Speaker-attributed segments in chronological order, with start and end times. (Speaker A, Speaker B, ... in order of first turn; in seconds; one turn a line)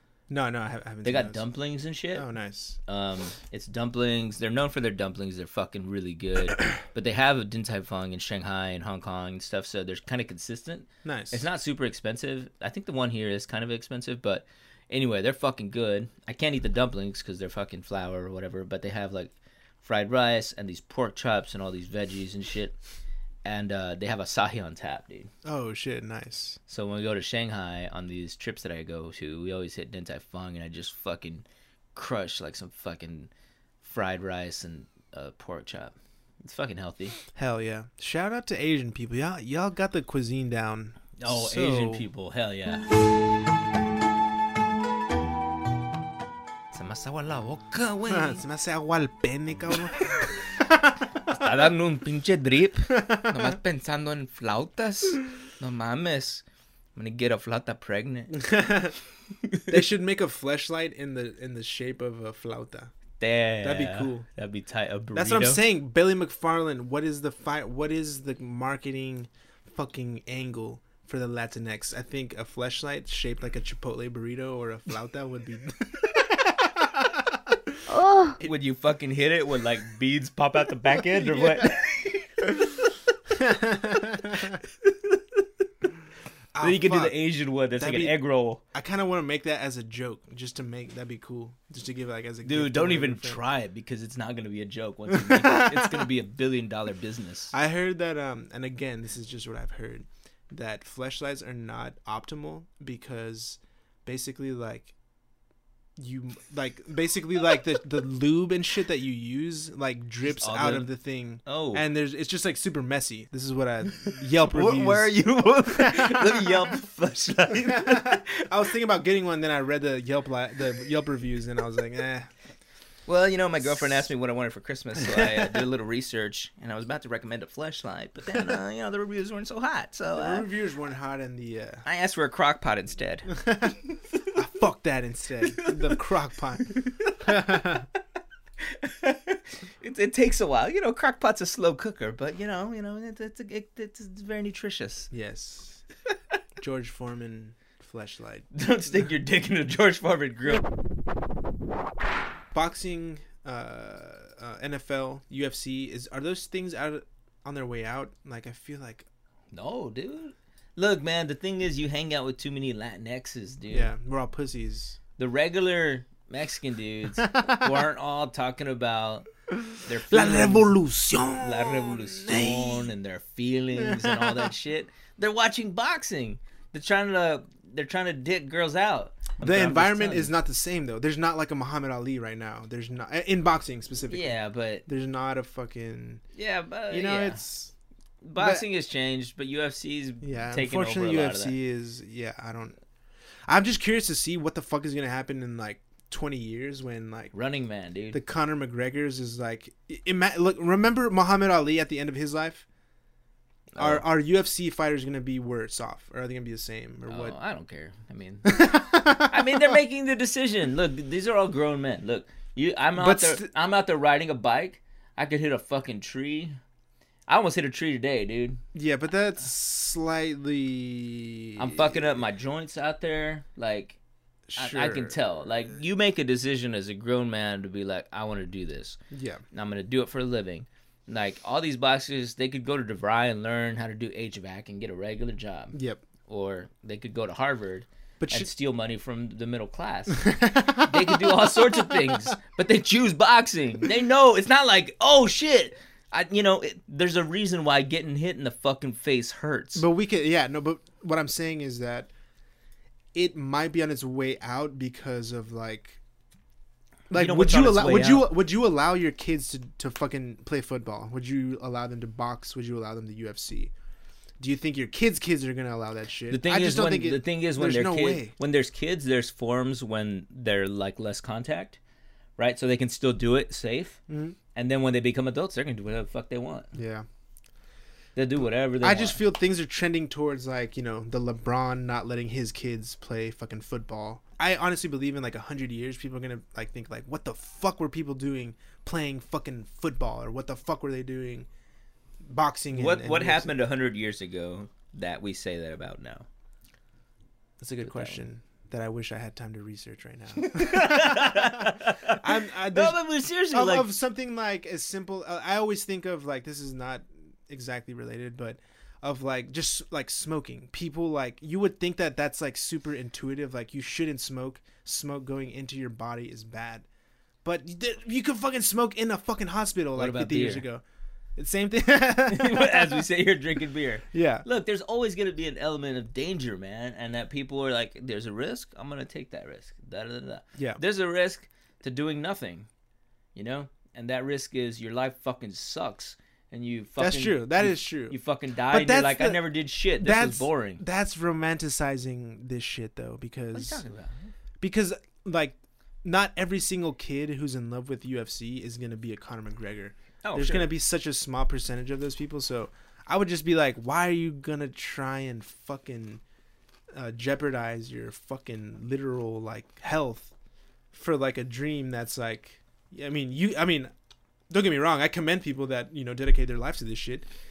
Speaker A: 0.3-1.4
Speaker B: 1.0-2.3
Speaker A: 2.1-2.8
Speaker B: 2.9-22.8
Speaker A: 11.0-11.4
Speaker B: 23.4-25.3
Speaker A: 25.4-26.6
Speaker B: 26.7-33.3
Speaker B: 33.8-37.2
Speaker A: 37.3-42.0
Speaker B: 41.2-42.9
Speaker B: 46.7-48.4
Speaker A: 48.1-50.9
Speaker B: 51.3-56.4
Speaker B: 57.0-58.4
Speaker A: 58.3-59.0
Speaker A: 59.7-62.9
Speaker B: 63.2-65.6
Speaker A: 63.6-64.2
Speaker A: 65.1-77.4
Speaker B: 78.4-82.7
Speaker A: 81.2-81.6
Speaker A: 83.3-84.6
Speaker B: 84.8-85.4
Speaker A: 86.5-87.2
Speaker B: 86.6-88.6
Speaker A: 87.8-88.2
Speaker A: 88.7-93.4
Speaker B: 92.4-97.5
Speaker A: 95.1-96.1
Speaker A: 97.5-104.9
Speaker A: 106.0-115.2
Speaker B: 110.2-110.9
Speaker B: 111.4-111.8
Speaker B: 114.0-118.3
Speaker A: 115.8-116.5
Speaker A: 117.6-122.3
Speaker B: 123.1-130.5
Speaker A: 130.2-131.8
Speaker B: 131.8-133.3
Speaker A: 133.3-133.8
Speaker A: 134.3-137.8
Speaker B: 136.7-137.6
Speaker B: 138.6-145.1
Speaker A: 145.1-145.8
Speaker A: 146.6-148.5
Speaker B: 148.5-150.7
Speaker A: 152.5-159.1
Speaker B: 159.5-163.9
Speaker A: 163.7-165.0
Speaker B: 165.2-169.3
Speaker A: 167.3-167.7
Speaker B: 169.8-170.8
Speaker A: 170.1-172.9
Speaker B: 171.3-180.3
Speaker A: 173.9-174.4
Speaker A: 179.4-186.2
Speaker B: 184.1-184.8
Speaker B: 186.3-187.4
Speaker A: 186.9-187.7
Speaker B: 188.2-191.6
Speaker A: 188.4-188.6
Speaker A: 190.2-192.8
Speaker A: 193.5-197.3
Speaker B: 197.3-198.2
Speaker A: 198.1-202.6
Speaker B: 203.7-204.0
Speaker A: 203.8-207.3
Speaker B: 207.1-216.6
Speaker A: 208.4-209.7
Speaker A: 212.9-213.5
Speaker B: 217.3-218.6
Speaker A: 218.7-222.2
Speaker B: 221.6-224.0
Speaker A: 224.5-225.8
Speaker B: 224.6-229.0
Speaker A: 229.1-229.4
Speaker B: 229.5-249.8
Speaker A: 235.7-236.0
Speaker A: 238.2-238.5
Speaker A: 240.2-242.3
Speaker A: 249.7-252.1
Speaker A: 253.1-256.0
Speaker A: 257.1-263.7
Speaker B: 257.1-258.3
Speaker A: 264.4-268.3
Speaker B: 266.3-271.8
Speaker B: 272.4-274.0
Speaker A: 274.1-274.4
Speaker B: 274.5-276.7
Speaker A: 276.7-277.0
Speaker B: 278.1-279.2
Speaker A: 278.8-291.5
Speaker A: 292.2-293.5
Speaker B: 292.7-296.2
Speaker A: 297.6-316.9
Speaker B: 297.8-298.2
Speaker B: 300.4-303.9
Speaker A: 317.4-320.8
Speaker B: 319.9-320.6
Speaker A: 321.4-323.0
Speaker B: 322.3-332.7
Speaker A: 324.1-324.4
Speaker B: 333.3-340.8
Speaker A: 337.0-338.2
Speaker A: 338.7-339.4
Speaker A: 340.0-343.8
Speaker B: 343.5-344.3
Speaker A: 344.6-356.2
Speaker B: 350.2-350.7
Speaker A: 356.9-360.3
Speaker A: 360.9-363.9
Speaker A: 364.5-367.3